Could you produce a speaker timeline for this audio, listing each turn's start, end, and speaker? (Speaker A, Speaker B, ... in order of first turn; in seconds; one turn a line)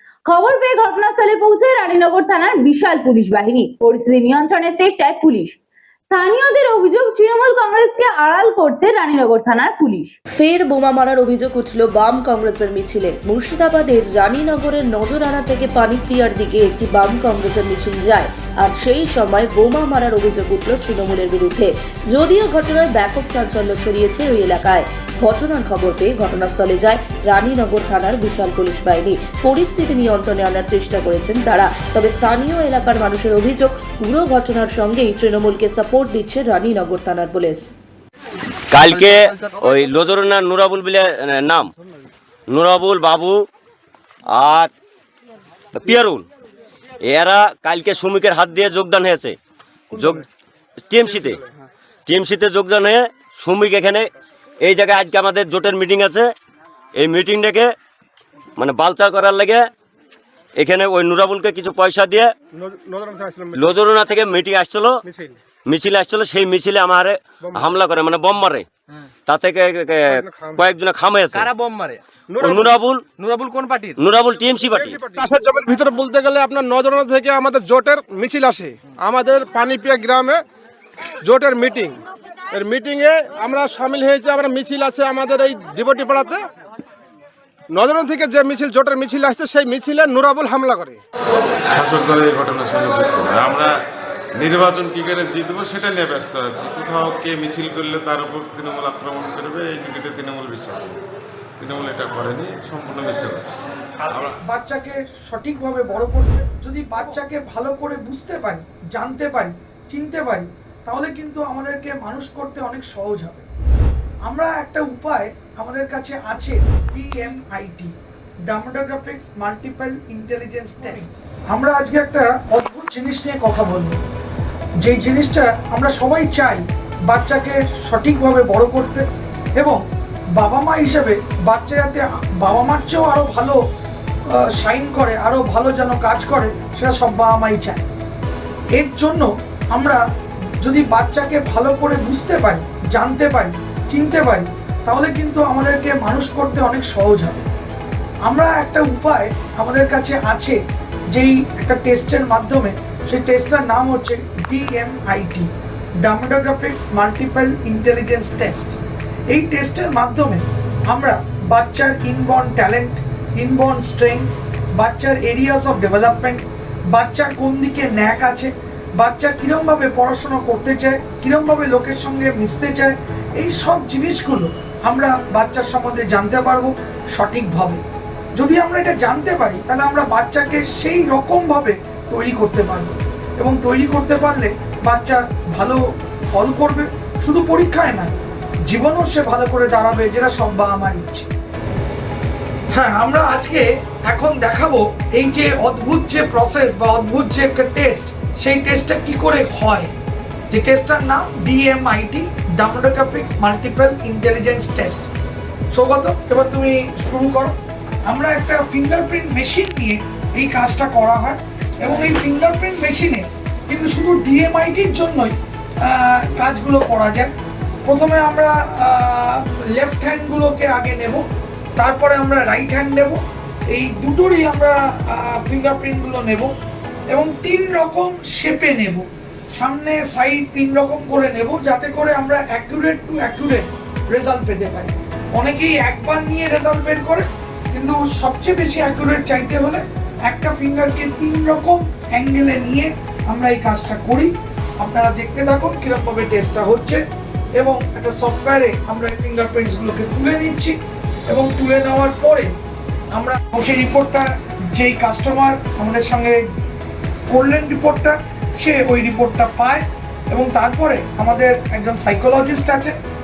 Speaker A: 0.3-5.6
Speaker A: 6.1-10.1
Speaker B: 10.3-37.7
Speaker C: 38.7-41.7
Speaker D: 38.9-39.4
Speaker C: 42.5-43.5
Speaker C: 44.3-44.7
Speaker C: 45.7-46.2
Speaker C: 47.0-49.4
Speaker C: 49.9-50.2
Speaker C: 50.9-51.4
Speaker C: 52.1-54.1
Speaker C: 54.6-56.3
Speaker C: 56.9-57.7
Speaker C: 58.6-59.7
Speaker C: 60.5-62.3
Speaker E: 62.5-63.9
Speaker C: 63.5-65.0
Speaker E: 65.0-65.4
Speaker C: 65.6-68.7
Speaker E: 67.4-67.7
Speaker C: 69.3-71.5
Speaker E: 70.1-70.6
Speaker D: 71.3-72.0
Speaker E: 72.3-72.8
Speaker C: 72.4-73.1
Speaker D: 73.2-74.0
Speaker C: 74.0-75.0
Speaker E: 74.7-80.4
Speaker E: 81.2-86.4
Speaker E: 87.7-91.0
Speaker F: 91.7-93.7
Speaker F: 94.4-101.0
Speaker F: 101.6-103.5
Speaker F: 104.1-104.3
Speaker G: 104.4-113.5
Speaker G: 114.2-117.9
Speaker G: 118.5-124.0
Speaker G: 124.8-129.1
Speaker G: 130.4-133.6
Speaker G: 134.4-137.8
Speaker G: 138.8-140.0
Speaker G: 140.6-147.4
Speaker G: 148.2-150.6
Speaker G: 151.1-155.5
Speaker G: 156.1-158.8
Speaker G: 159.3-177.8
Speaker G: 178.4-185.8
Speaker G: 186.3-188.2
Speaker G: 188.7-191.3
Speaker G: 192.7-199.9
Speaker G: 200.5-205.1
Speaker G: 205.7-207.5
Speaker G: 208.1-217.3
Speaker G: 217.9-221.2
Speaker G: 221.8-223.2
Speaker G: 223.7-226.5
Speaker G: 227.1-247.0
Speaker G: 247.6-250.8
Speaker G: 251.3-252.5
Speaker G: 253.1-256.4
Speaker G: 257.3-263.0